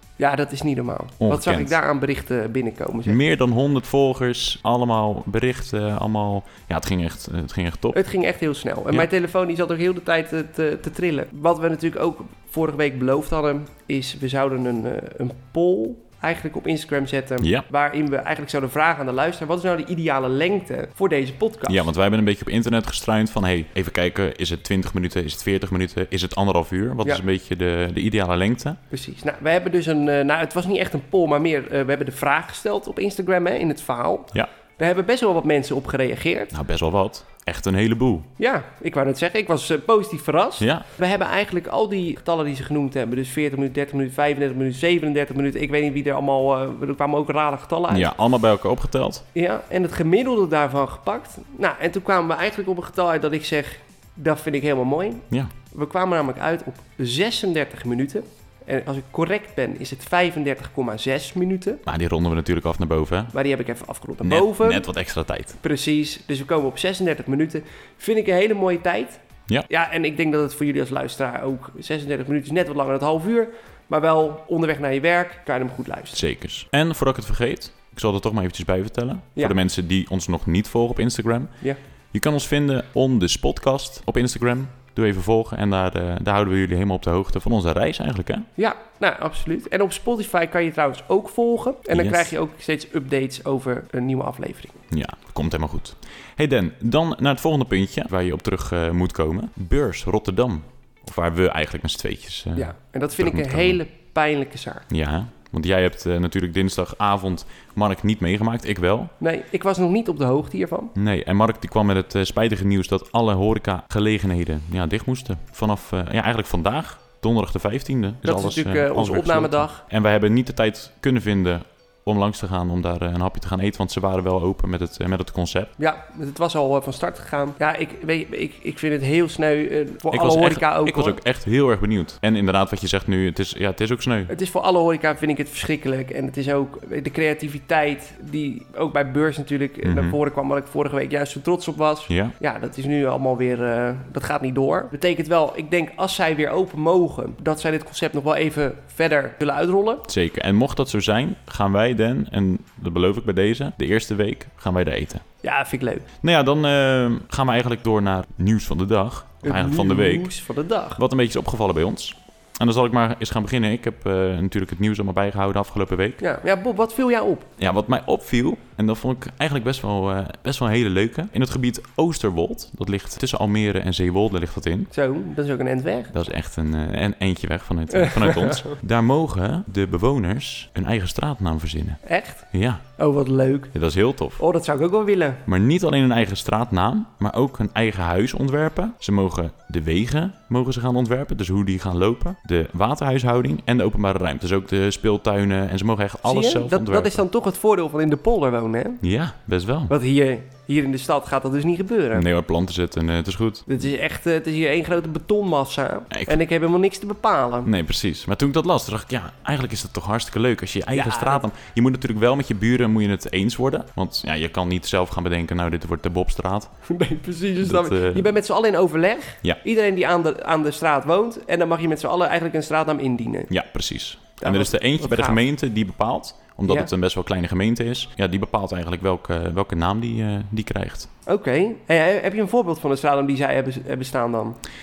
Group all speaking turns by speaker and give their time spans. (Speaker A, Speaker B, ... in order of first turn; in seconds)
Speaker A: 0.2-3.2, 7.9-21.9, 28.9-36.5, 38.4-48.1, 49.3-61.8, 63.3-64.9, 65.6-76.2, 88.6-94.8, 102.5-104.9, 109.2-110.9, 118.2-119.8, 125.8-131.2, 134.3-150.1, 155.4-156.1, 159.4-161.0, 166.2-167.5, 174.9-176.1, 177.9-178.8, 182.1-182.5, 183.0-183.7, 184.4-185.4, 196.2-199.0, 199.9-202.3, 203.7-207.7, 210.9-211.5, 216.9-223.5, 224.4-225.4, 231.3-234.6
Speaker B: 1.2-1.8, 3.1-8.0, 21.7-28.8, 36.5-38.3, 40.6-40.9, 47.9-49.2, 61.9-63.3, 64.2-65.6, 76.2-81.5, 82.1-88.5, 91.9-92.3, 94.9-103.8, 104.9-109.1, 111.0-125.7, 130.1-134.3, 139.8-140.2, 142.1-142.3, 150.1-155.2, 156.2-160.3, 161.0-166.2, 167.6-174.9, 176.1-182.8, 183.7-184.4, 185.5-197.2, 199.0-199.9, 202.1-203.7, 206.1-206.4, 207.7-216.7, 217.6-218.3, 223.5-231.1